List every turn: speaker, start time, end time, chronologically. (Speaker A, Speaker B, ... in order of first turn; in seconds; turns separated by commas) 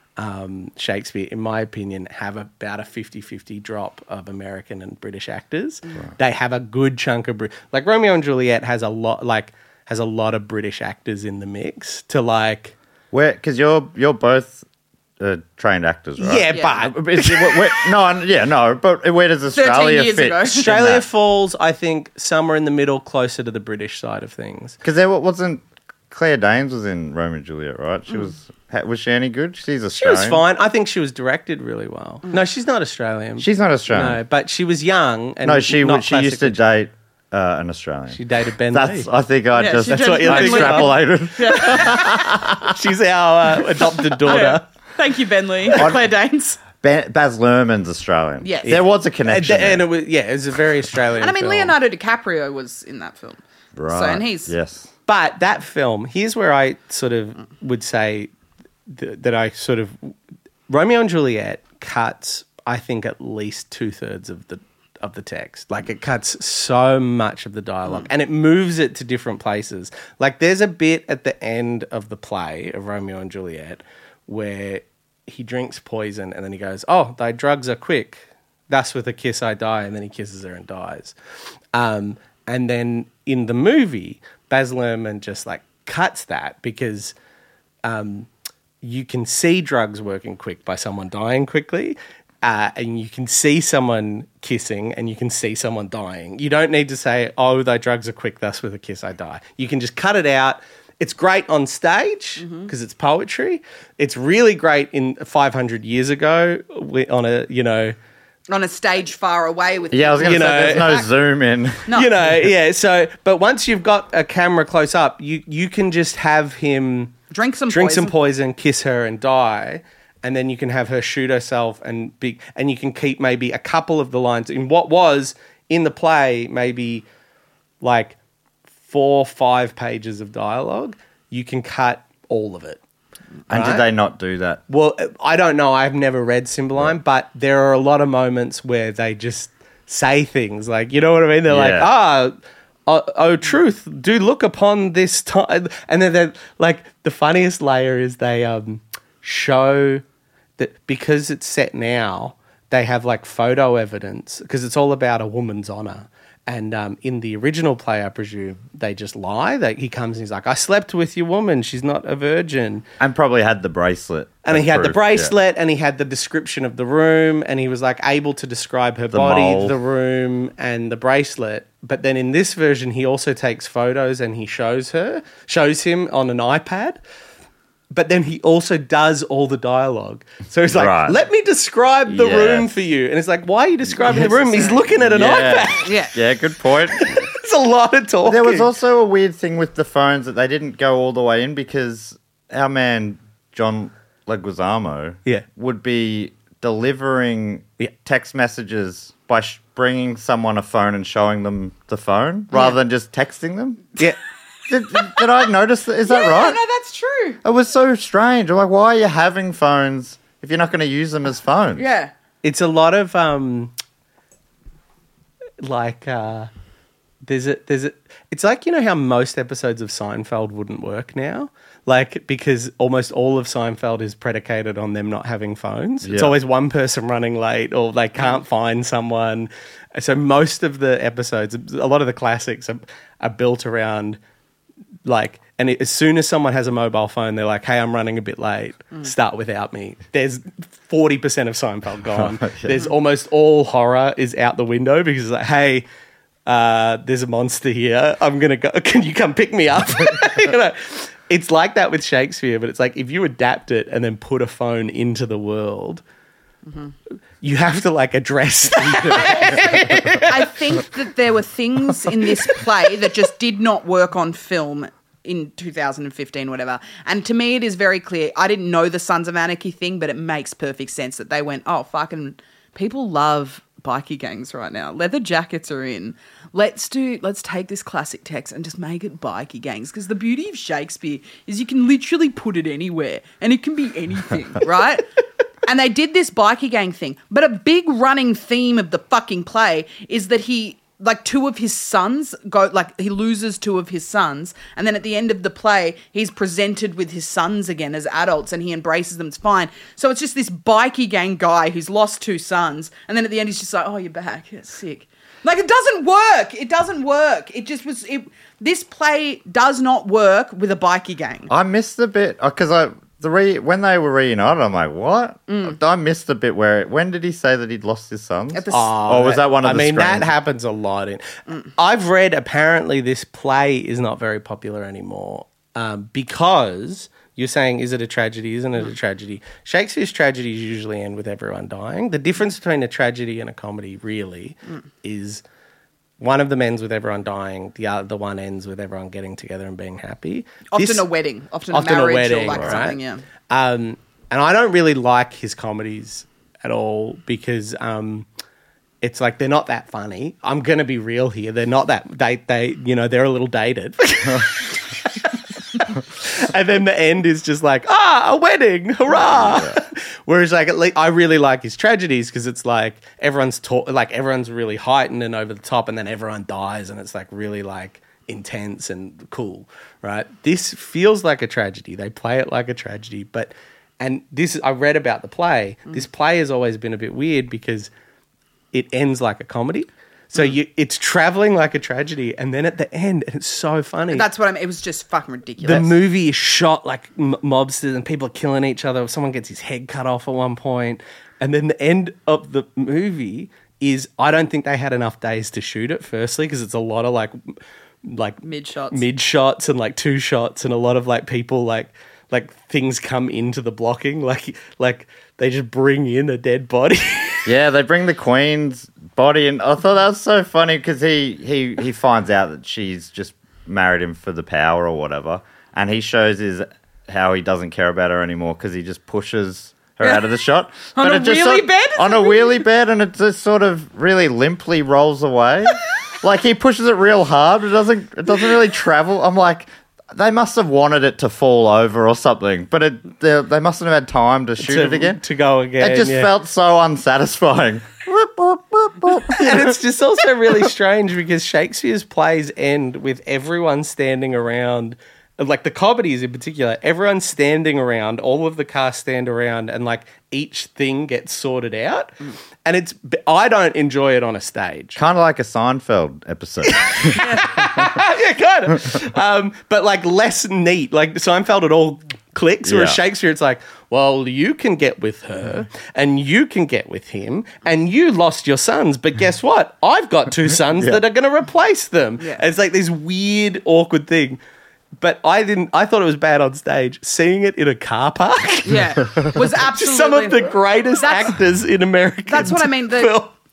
Speaker A: 0.2-12.7, Speaker B: 13.1-14.6, Speaker B: 15.2-21.1, Speaker A: 16.2-17.9, Speaker C: 16.5-16.8, Speaker C: 19.5-20.7, Speaker A: 20.5-24.8, Speaker B: 24.8-30.4, Speaker A: 29.9-36.6, Speaker B: 33.4-34.2, Speaker B: 35.4-42.7, Speaker A: 38.1-39.1, Speaker C: 39.5-42.2, Speaker A: 39.8-41.0, Speaker A: 41.6-44.7, Speaker C: 44.2-46.6, Speaker B: 45.7-46.0, Speaker B: 46.8-49.9, Speaker C: 48.4-48.8, Speaker A: 48.6-51.7, Speaker C: 51.2-54.5, Speaker B: 53.7-54.9, Speaker A: 55.1-58.3, Speaker A: 58.9-60.1, Speaker A: 60.7-81.1, Speaker A: 81.7-87.1, Speaker A: 87.8-88.3, Speaker A: 88.8-108.0, Speaker C: 102.4-102.7, Speaker C: 108.5-111.1, Speaker B: 109.9-111.9, Speaker A: 110.2-111.0, Speaker A: 111.9-117.2, Speaker C: 117.3-118.1, Speaker A: 117.7-127.0, Speaker A: 127.8-128.2, Speaker A: 128.9-132.8, Speaker A: 133.5-133.9, Speaker B: 133.5-134.6, Speaker A: 134.7-142.3, Speaker B: 141.5-141.9, Speaker A: 142.8-150.0, Speaker A: 150.6-162.8, Speaker B: 163.0-165.3, Speaker A: 164.4-177.0, Speaker B: 169.1-169.8, Speaker A: 177.9-186.0, Speaker B: 180.7-181.2, Speaker B: 182.1-182.8, Speaker B: 184.0-187.2, Speaker C: 184.1-184.8, Speaker C: 185.7-186.1, Speaker A: 186.9-188.7, Speaker B: 188.2-204.0, Speaker B: 204.7-206.6, Speaker C: 206.1-207.4, Speaker B: 207.4-211.8, Speaker C: 211.8-212.1, Speaker A: 212.4-213.7, Speaker A: 215.6-216.5, Speaker A: 217.2-234.2, Speaker B: 226.0-226.3, Speaker A: 235.0-245.8, Speaker A: 246.4-256.0, Speaker C: 256.6-256.9, Speaker A: 257.4-260.5, Speaker C: 259.0-285.1, Speaker C: 285.6-311.5, Speaker B: 311.5-320.3, Speaker C: 315.5-315.8, Speaker C: 318.5-318.9, Speaker A: 318.7-335.4, Speaker A: 336.2-341.1, Speaker C: 340.7-343.2, Speaker A: 341.7-348.2, Speaker B: 342.5-342.8, Speaker A: 349.0-377.9, Speaker B: 359.2-359.8, Speaker A: 378.7-384.2, Speaker C: 384.1-385.9, Speaker A: 385.6-397.4, Speaker A: 398.0-407.5, Speaker C: 398.4-399.1, Speaker B: 407.4-435.2, Speaker C: 420.0-420.3, Speaker C: 420.9-422.6, Speaker A: 434.6-436.3, Speaker B: 435.8-439.8, Speaker A: 439.3-455.0, Speaker B: 454.9-457.7, Speaker A: 456.6-474.4, Speaker C: 457.2-457.4, Speaker B: 462.6-463.0, Speaker B: 470.8-471.0, Speaker A: 475.0-483.3, Speaker C: 478.6-481.3, Speaker C: 482.3-483.2